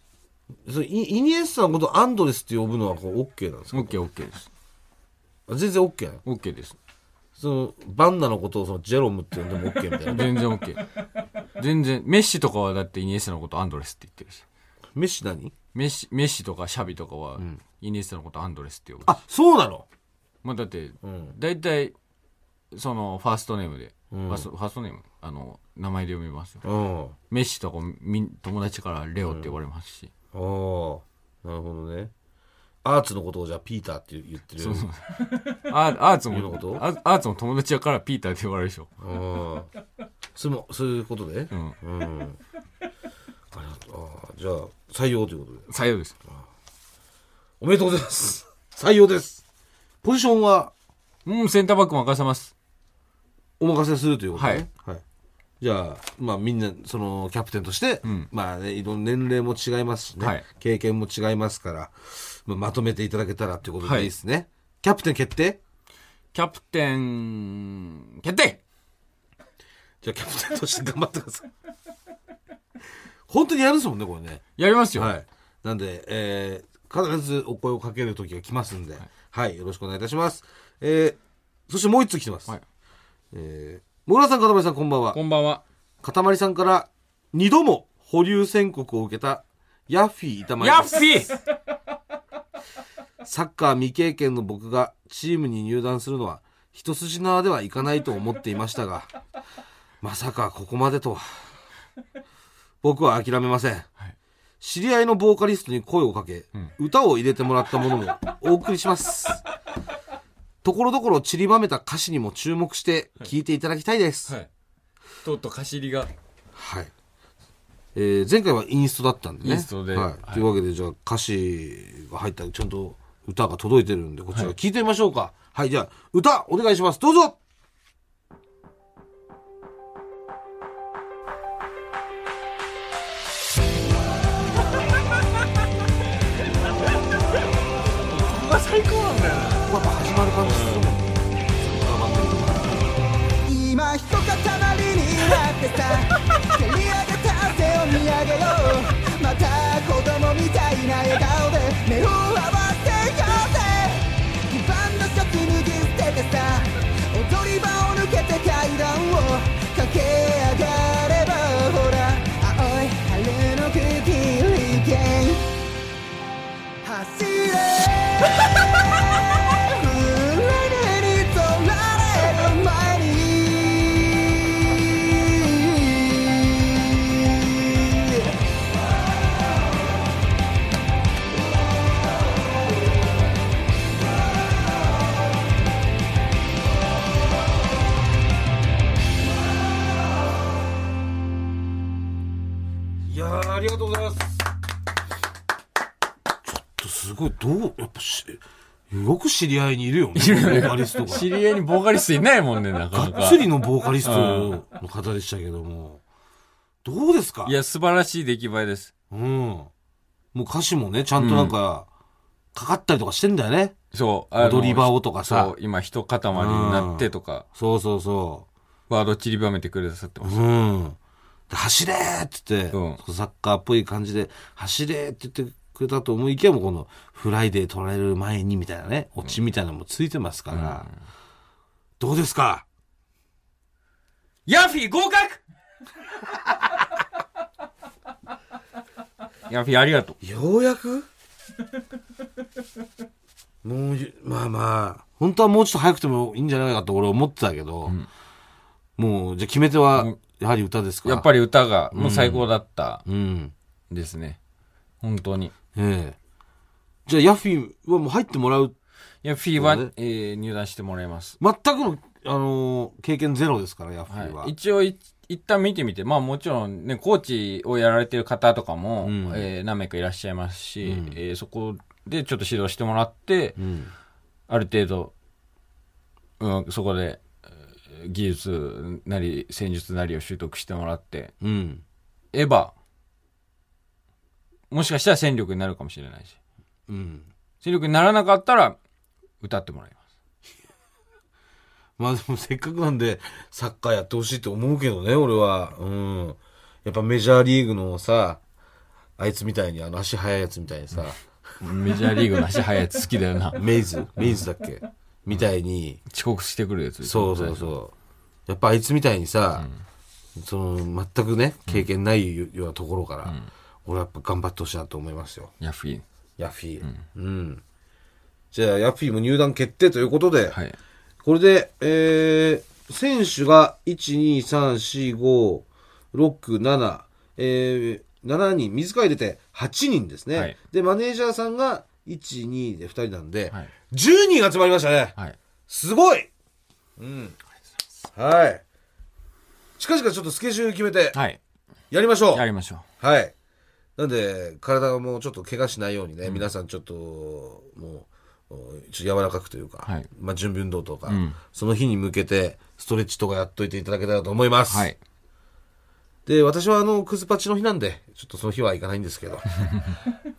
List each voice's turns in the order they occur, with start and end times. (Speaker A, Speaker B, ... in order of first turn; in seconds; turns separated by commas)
Speaker A: 0.7-4.0, Speaker B: 3.7-4.5, Speaker A: 5.5-6.2, Speaker B: 6.2-6.8, Speaker A: 7.4-10.3, Speaker B: 10.0-10.9, Speaker B: 11.6-14.4, Speaker A: 14.9-15.5, Speaker B: 15.7-19.1, Speaker A: 19.1-19.9, Speaker B: 20.4-21.9, Speaker A: 21.0-21.4, Speaker B: 22.7-26.6, Speaker A: 24.1-24.5, Speaker A: 26.6-27.2, Speaker B: 27.3-30.1, Speaker A: 29.2-29.5, Speaker A: 30.3-32.1, Speaker A: 32.8-34.9, Speaker B: 34.6-38.9, Speaker A: 36.3-36.9, Speaker A: 39.0-39.7, Speaker A: 40.4-42.4, Speaker B: 41.5-41.8, Speaker A: 43.5-45.7, Speaker B: 45.7-46.2, Speaker A: 47.6-49.4, Speaker A: 50.0-50.7, Speaker B: 51.2-52.5, Speaker A: 53.6-55.0, Speaker B: 54.3-54.7, Speaker A: 55.6-65.6, Speaker B: 60.2-60.4, Speaker B: 63.8-64.1, Speaker B: 66.3-68.6, Speaker A: 70.0-71.5, Speaker A: 73.3-74.4, Speaker B: 74.6-75.1, Speaker A: 75.0-82.5, Speaker A: 83.3-85.2, Speaker B: 85.1-85.6, Speaker A: 86.0-91.3, Speaker B: 90.6-91.4, Speaker A: 93.2-99.1, Speaker A: 100.0-101.5, Speaker A: 102.8-103.9, Speaker A: 104.6-109.4, Speaker A: 110.6-114.3, Speaker B: 115.2-116.1, Speaker A: 116.5-116.9, Speaker A: 118.0-127.4, Speaker B: 119.4-120.5, Speaker B: 138.1-139.7, Speaker A: 139.7-142.9, Speaker C: 143.4-165.5, Speaker C: 166.8-178.3, Speaker A: 193.1-194.4, Speaker A: 196.4-201.3, Speaker B: 200.2-203.5, Speaker A: 202.9-206.0, Speaker B: 204.0-204.6, Speaker A: 206.8-207.6, Speaker B: 207.4-208.9, Speaker A: 209.1-209.7, Speaker A: 210.3-211.9, Speaker B: 211.2-211.6, Speaker A: 212.5-213.8, Speaker B: 213.9-217.5, Speaker A: 214.4-215.5, Speaker A: 216.3-218.5, Speaker B: 218.9-220.4, Speaker A: 220.2-221.0, Speaker A: 221.5-230.9, Speaker B: 222.7-223.0, Speaker B: 230.5-230.9, Speaker A: 232.0-232.7, Speaker B: 234.5-235.4, Speaker B: 239.5-240.2, Speaker A: 240.2-241.1, Speaker A: 243.6-248.0, Speaker A: 249.0-251.3, Speaker B: 251.0-253.0, Speaker A: 251.9-252.5, Speaker A: 253.1-253.5, Speaker B: 253.9-254.4, Speaker B: 255.0-255.5, Speaker A: 255.8-256.2, Speaker A: 257.1-258.8, Speaker B: 259.2-261.4, Speaker A: 259.6-259.9, Speaker A: 261.4-264.5, Speaker B: 264.1-273.6, Speaker A: 269.0-269.5, Speaker A: 270.8-271.2, Speaker A: 273.6-273.9, Speaker B: 274.5-275.1, Speaker B: 276.4-277.2, Speaker B: 277.9-281.3, Speaker A: 281.4-281.8, Speaker B: 282.3-282.7, Speaker B: 284.7-286.4, Speaker A: 286.9-287.3, Speaker B: 287.6-288.8, Speaker B: 289.4-290.0, Speaker A: 292.0-298.4, Speaker A: 299.2-301.3, Speaker B: 301.6-303.6, Speaker A: 303.5-306.0, Speaker B: 306.1-307.7, Speaker A: 307.0-307.9, Speaker A: 308.5-309.7, Speaker A: 310.4-315.5, Speaker B: 315.6-316.0, Speaker A: 316.4-317.6, Speaker A: 318.5-320.6, Speaker A: 321.2-335.2, Speaker A: 335.7-336.3, Speaker A: 337.0-337.4, Speaker A: 338.1-338.6, Speaker A: 339.8-341.2, Speaker B: 341.1-341.4, Speaker A: 341.9-342.5, Speaker B: 342.3-342.9, Speaker A: 343.0-343.3, Speaker A: 344.0-354.9, Speaker B: 351.1-351.4, Speaker B: 354.7-355.0, Speaker A: 356.3-359.6